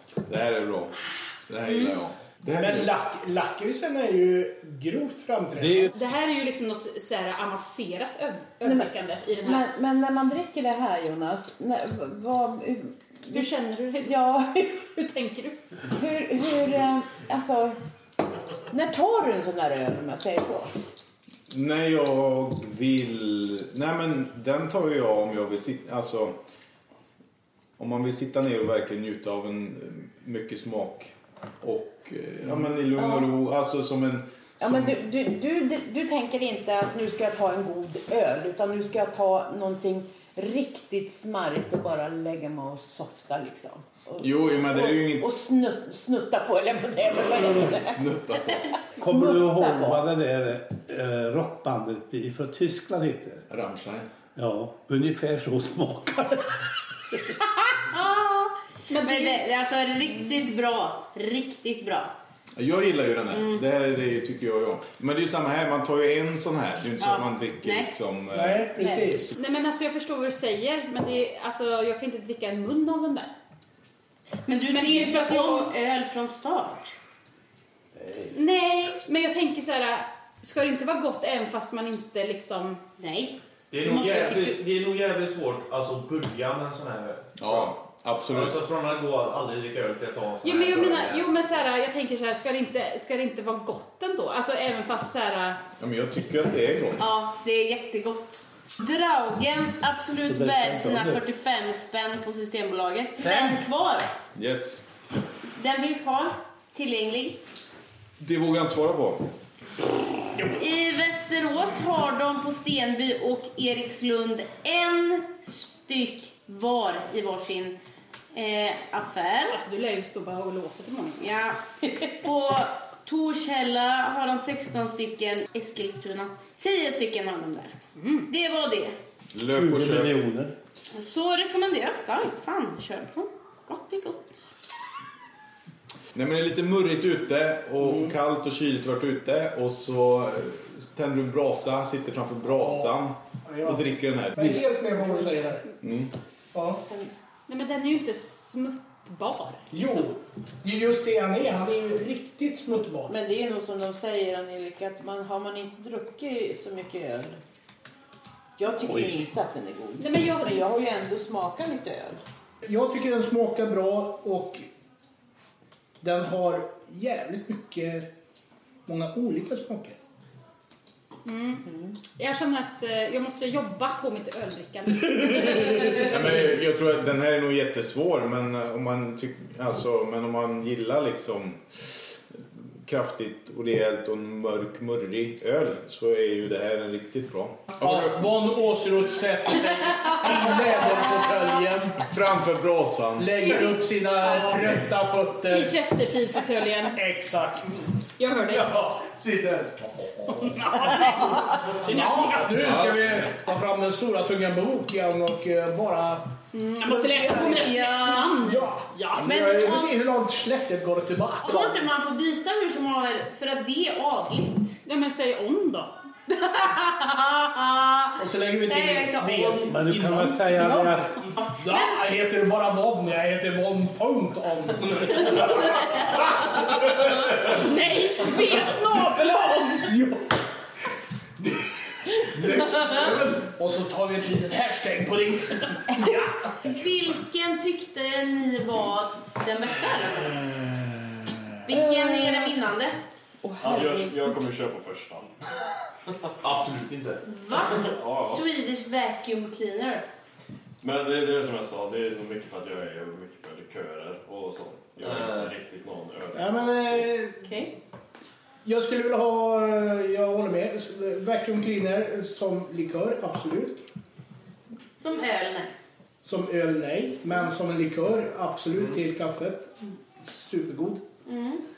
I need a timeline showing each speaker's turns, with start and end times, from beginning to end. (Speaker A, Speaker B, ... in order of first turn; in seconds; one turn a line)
Speaker A: 0.3-0.9
Speaker A: 1.5-2.9
Speaker B: 2.5-5.9
Speaker C: 5.6-5.9
Speaker D: 5.9-9.7
Speaker E: 8.6-8.9
Speaker E: 9.4-14.8
Speaker D: 13.3-15.6
Speaker E: 15.9-17.8
Speaker E: 18.7-20.7
Speaker A: 21.5-26.4
Speaker A: 27.8-35.0
Speaker E: 32.9-33.3
Speaker E: 34.6-48.0
Speaker A: 44.2-45.3
Speaker A: 47.4-48.7
Speaker E: 48.9-50.1
Speaker C: 49.0-53.4
Speaker A: 53.5-54.1
Speaker C: 54.4-57.2
Speaker F: 57.9-62.1
Speaker D: 58.9-59.4
Speaker A: 62.5-69.0
Speaker F: 63.3-63.6
Speaker F: 67.0-67.9
Speaker B: 68.3-69.3
Speaker D: 69.3-73.3
Speaker F: 74.5-77.0
Speaker D: 74.7-75.7
Speaker D: 78.3-82.8
Speaker F: 83.0-83.4
Speaker G: 83.7-87.7
Speaker F: 83.9-84.2
Speaker A: 87.4-88.6
Speaker G: 88.3-91.2
Speaker D: 90.4-95.6
Speaker A: 95.8-97.0
Speaker F: 97.0-104.1
Speaker C: 100.3-101.2
Speaker A: 104.3-104.8
Speaker F: 105.6-107.4
Speaker A: 108.2-109.2
Speaker F: 110.5-117.8
Speaker F: 118.3-119.6
Speaker D: 119.5-121.3
Speaker F: 121.2-128.9
Speaker D: 128.0-128.3
Speaker A: 129.3-130.3
Speaker C: 129.5-130.5
Speaker F: 130.9-134.5
Speaker A: 136.1-144.7
Speaker B: 137.8-138.1
Speaker B: 142.6-142.9
Speaker B: 143.4-145.7
Speaker A: 145.8-146.1
Speaker B: 146.5-146.8
Speaker D: 147.5-150.1
Speaker B: 149.7-153.1
Speaker E: 153.1-157.4
Speaker E: 158.6-162.2
Speaker C: 158.8-159.2
Speaker D: 160.0-160.7
Speaker B: 162.6-164.6
Speaker B: 166.0-168.1
Speaker B: 168.8-170.0
Speaker D: 171.2-176.5
Speaker A: 175.5-182.1
Speaker A: 182.8-188.3
Speaker B: 187.8-192.1
Speaker A: 192.0-193.4
Speaker B: 193.2-195.8
Speaker D: 193.5-194.5
Speaker D: 195.5-197.0
Speaker B: 196.9-197.8
Speaker D: 198.2-199.0
Speaker B: 200.2-207.8
Speaker D: 200.6-202.7
Speaker A: 202.6-203.2
Speaker D: 206.5-209.1
Speaker F: 207.5-208.4
Speaker B: 208.4-211.8
Speaker F: 209.2-209.9
Speaker F: 211.4-214.8
Speaker D: 214.8-215.9
Speaker F: 216.3-219.8
Speaker B: 218.2-226.0
Speaker C: 219.7-221.2
Speaker E: 220.6-221.0
Speaker F: 221.4-221.9
Speaker F: 226.1-226.4
Speaker D: 226.6-229.8
Speaker B: 229.9-230.3
Speaker B: 232.4-236.3
Speaker F: 236.6-240.4
Speaker F: 241.7-243.0
Speaker E: 241.7-242.6
Speaker E: 243.4-244.4
Speaker H: 243.6-245.3
Speaker G: 246.4-247.2
Speaker F: 247.2-250.0
Speaker H: 247.6-248.4
Speaker H: 250.8-257.1
Speaker G: 255.0-255.5
Speaker B: 256.3-257.4
Speaker F: 257.4-257.7
Speaker B: 258.6-263.8
Speaker F: 265.0-265.7
Speaker B: 266.2-271.0
Speaker F: 271.2-271.6